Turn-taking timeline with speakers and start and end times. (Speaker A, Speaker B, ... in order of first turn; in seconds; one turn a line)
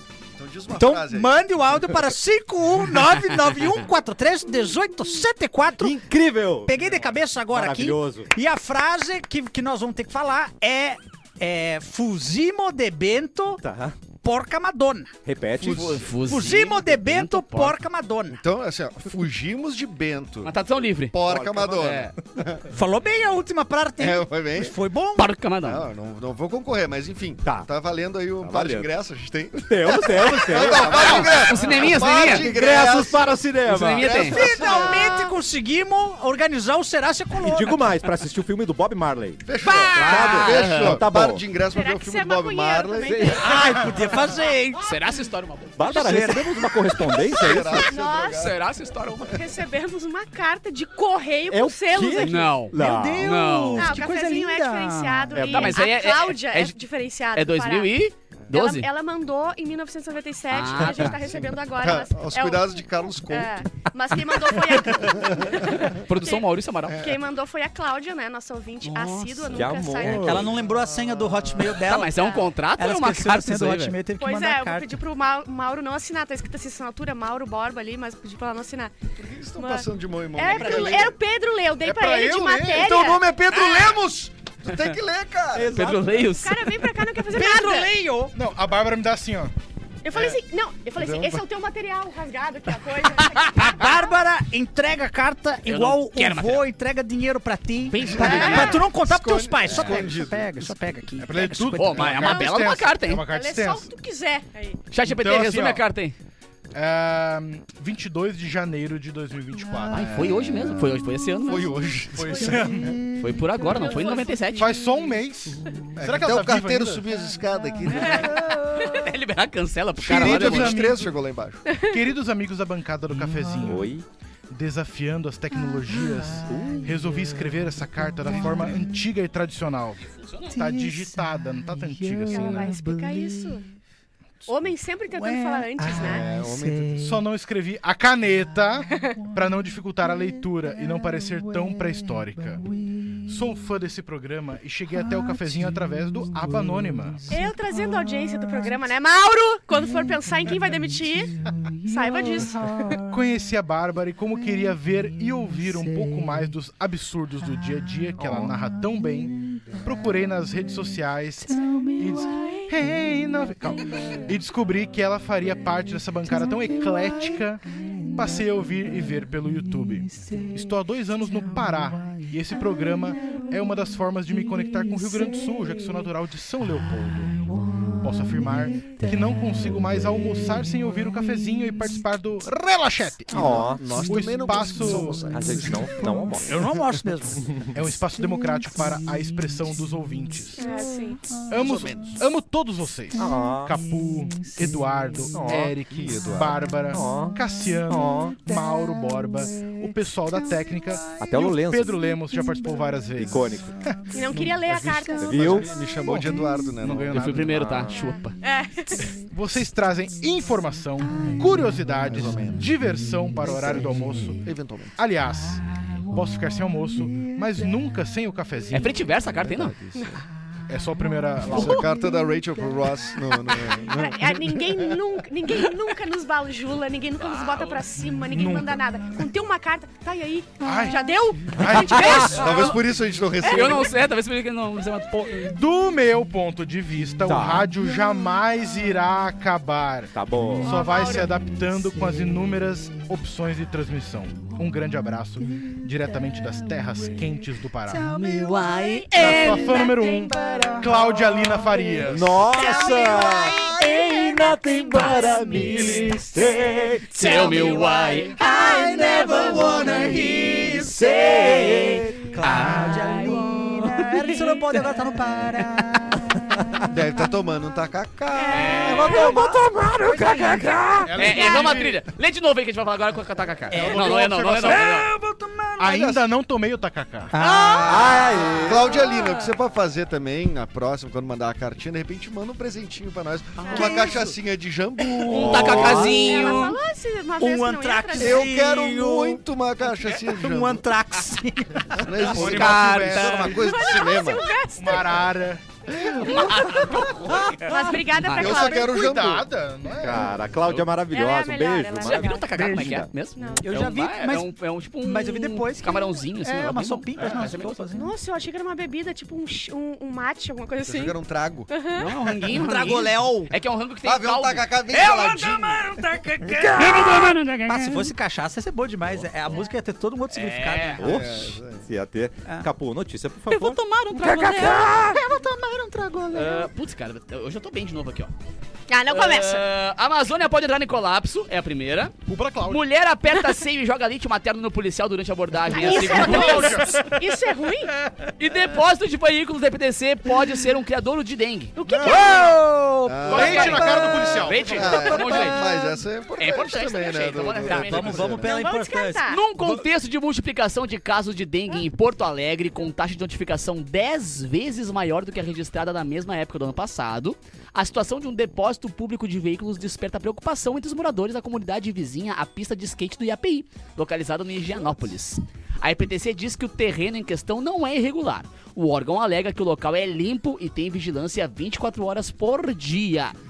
Speaker A: 0.3-1.3
Speaker B: 0.7-6.0
Speaker C: 5.8-8.3
Speaker B: 6.7-13.6
Speaker C: 13.6-13.9
Speaker B: 14.2-15.1
Speaker C: 15.2-16.1
Speaker A: 15.6-16.1
Speaker D: 15.6-17.8
Speaker B: 16.2-18.4
Speaker A: 18.3-20.5
Speaker D: 20.4-21.2
Speaker A: 21.1-22.6
Speaker C: 21.2-21.8
Speaker D: 21.7-22.1
Speaker B: 22.7-25.3
Speaker A: 24.0-24.8
Speaker D: 25.1-25.8
Speaker A: 25.6-33.4
Speaker C: 28.4-28.9
Speaker C: 29.6-34.4
Speaker D: 30.8-32.5
Speaker D: 33.6-34.4
Speaker A: 34.0-35.1
Speaker B: 34.2-37.8
Speaker E: 34.6-35.3
Speaker C: 37.4-41.4
Speaker A: 39.4-43.3
Speaker B: 39.6-40.4
Speaker D: 39.9-41.0
Speaker E: 41.7-43.6
Speaker C: 43.0-43.8
Speaker B: 43.4-44.9
Speaker D: 44.8-45.9
Speaker C: 45.8-47.9
Speaker B: 45.8-46.7
Speaker A: 47.2-48.6
Speaker E: 47.8-48.5
Speaker D: 48.2-49.4
Speaker E: 49.3-52.5
Speaker C: 51.5-53.3
Speaker D: 52.2-54.0
Speaker B: 52.7-55.5
Speaker E: 53.8-58.0
Speaker C: 55.3-55.8
Speaker D: 55.5-56.8
Speaker D: 57.3-58.9
Speaker E: 58.5-70.5
Speaker D: 60.5-61.2
Speaker A: 61.0-63.6
Speaker A: 64.7-65.8
Speaker D: 65.8-67.1
Speaker A: 66.9-67.1
Speaker D: 69.0-69.2
Speaker C: 69.5-70.5
Speaker B: 70.0-72.2
Speaker A: 70.9-71.7
Speaker D: 71.8-74.0
Speaker E: 72.0-72.5
Speaker B: 72.8-74.9
Speaker E: 74.2-78.9
Speaker A: 79.2-81.2
Speaker E: 79.6-83.2
Speaker B: 80.4-81.1
Speaker F: 81.8-82.9
Speaker A: 82.7-85.8
Speaker B: 85.6-86.2
Speaker D: 85.6-86.7
Speaker C: 85.7-86.0
Speaker E: 86.3-87.9
Speaker B: 87.3-88.3
Speaker F: 88.3-89.5
Speaker E: 90.0-94.1
Speaker A: 90.1-90.4
Speaker A: 91.0-91.4
Speaker B: 93.5-102.3
Speaker D: 95.7-96.7
Speaker D: 97.9-98.8
Speaker A: 98.0-100.7
Speaker E: 98.2-98.8
Speaker F: 101.2-103.9
Speaker D: 101.8-103.2
Speaker E: 102.2-102.7
Speaker E: 103.2-104.8
Speaker D: 104.9-106.1
Speaker F: 105.0-105.8
Speaker F: 106.7-110.3
Speaker D: 109.9-111.8
Speaker A: 110.1-112.9
Speaker F: 112.1-113.0
Speaker D: 113.2-114.7
Speaker E: 113.7-114.6
Speaker F: 114.6-117.0
Speaker A: 116.0-118.7
Speaker E: 118.0-119.0
Speaker D: 118.7-120.8
Speaker A: 120.0-121.6
Speaker F: 120.1-121.1
Speaker E: 121.7-122.0
Speaker F: 121.9-123.9
Speaker C: 123.6-124.0
Speaker F: 124.5-132.8
Speaker C: 126.5-126.9
Speaker D: 130.2-130.5
Speaker E: 132.3-133.6
Speaker E: 134.4-136.3
Speaker B: 135.2-137.1
Speaker A: 135.9-137.1
Speaker F: 137.0-142.7
Speaker F: 143.2-147.3
Speaker E: 147.3-153.0
Speaker F: 153.0-185.4
Speaker E: 162.4-162.7
Speaker C: 183.3-184.0
Speaker A: 183.3-186.0
Speaker C: 185.3-186.7
Speaker B: 186.4-187.4
Speaker C: 187.4-187.8
Speaker F: 187.7-190.8
Speaker E: 190.6-191.3
Speaker F: 191.5-207.7
Speaker A: 191.6-192.2
Speaker C: 193.2-193.8
Speaker C: 195.3-195.8
Speaker A: 195.8-196.6
Speaker C: 196.9-197.4
Speaker C: 197.9-198.4
Speaker C: 201.2-202.0
Speaker C: 203.2-203.8
Speaker E: 204.1-205.6
Speaker C: 205.2-205.7
Speaker A: 205.3-207.2
Speaker D: 207.1-208.3
Speaker C: 207.5-208.0
Speaker E: 208.4-209.1
Speaker F: 209.1-214.4
Speaker A: 212.0-212.7
Speaker A: 213.4-213.9
Speaker A: 214.4-214.9
Speaker F: 215.0-219.0
Speaker D: 218.7-219.8
Speaker A: 219.3-220.2
Speaker F: 220.7-221.9
Speaker A: 221.4-224.9
Speaker E: 223.8-232.8
Speaker D: 227.2-227.8
Speaker F: 228.3-228.8
Speaker F: 230.6-232.4
Speaker D: 232.2-232.8
Speaker A: 232.2-234.0
Speaker E: 233.4-233.9
Speaker D: 233.4-235.5
Speaker F: 235.4-248.2
Speaker C: 237.2-237.7
Speaker C: 240.1-240.8
Speaker E: 240.6-241.3
Speaker B: 247.9-251.1
Speaker D: 248.2-249.8
Speaker E: 249.1-250.8
Speaker F: 249.1-252.5
Speaker C: 252.0-258.3
Speaker E: 252.4-260.1
Speaker B: 255.8-256.2
Speaker D: 257.1-258.4
Speaker B: 257.2-257.8
Speaker B: 258.3-266.4
Speaker C: 259.2-262.4
Speaker D: 261.3-261.8
Speaker D: 262.4-264.6
Speaker A: 266.9-269.4
Speaker E: 268.4-269.3
Speaker D: 268.5-269.4
Speaker C: 268.8-271.2
Speaker B: 269.1-271.8
Speaker F: 271.1-272.0
Speaker D: 271.1-275.1
Speaker B: 273.7-275.8
Speaker F: 273.7-275.1
Speaker F: 275.8-277.3
Speaker A: 275.8-276.2
Speaker B: 277.3-278.6
Speaker C: 277.8-279.0
Speaker A: 278.6-286.1
Speaker E: 279.1-279.4
Speaker B: 283.6-284.3
Speaker E: 283.6-284.1
Speaker D: 285.3-286.8
Speaker C: 285.3-286.2
Speaker B: 285.8-286.7
Speaker E: 286.1-288.5
Speaker B: 287.4-289.4
Speaker A: 288.1-290.8
Speaker B: 290.2-292.2
Speaker A: 292.0-294.5
Speaker F: 292.2-293.6
Speaker D: 292.3-293.6
Speaker E: 293.5-295.3
Speaker F: 294.8-295.6
Speaker D: 296.2-298.7
Speaker E: 296.2-297.1
Speaker E: 297.7-299.0
Speaker A: 298.3-299.5
Speaker F: 298.6-300.5
Speaker C: 299.9-303.1
Speaker E: 301.1-302.7
Speaker D: 302.0-307.8
Speaker E: 303.4-303.7
Speaker B: 303.6-304.5
Speaker B: 305.0-308.1
Speaker E: 307.9-311.1
Speaker A: 310.8-311.7
Speaker E: 311.7-312.1
Speaker D: 311.9-315.7
Speaker B: 312.5-313.5
Speaker A: 314.0-315.9
Speaker B: 314.9-321.1
Speaker C: 316.6-317.4
Speaker D: 316.6-318.1
Speaker D: 320.3-321.0
Speaker C: 321.0-325.2
Speaker A: 321.0-321.9
Speaker D: 323.5-324.9
Speaker B: 324.2-326.7
Speaker D: 326.3-328.3
Speaker E: 328.9-329.6
Speaker D: 329.1-337.0
Speaker F: 332.3-332.8
Speaker E: 335.7-337.9
Speaker B: 335.8-336.7
Speaker F: 335.9-337.2
Speaker D: 338.4-342.1
Speaker E: 341.8-342.6
Speaker F: 341.9-342.5
Speaker B: 342.0-344.4
Speaker A: 343.0-343.9
Speaker F: 343.2-345.2
Speaker D: 343.2-345.7
Speaker A: 344.6-348.6
Speaker B: 345.3-345.8
Speaker D: 346.4-348.4
Speaker B: 347.6-349.8
Speaker E: 348.4-349.4
Speaker D: 349.3-373.3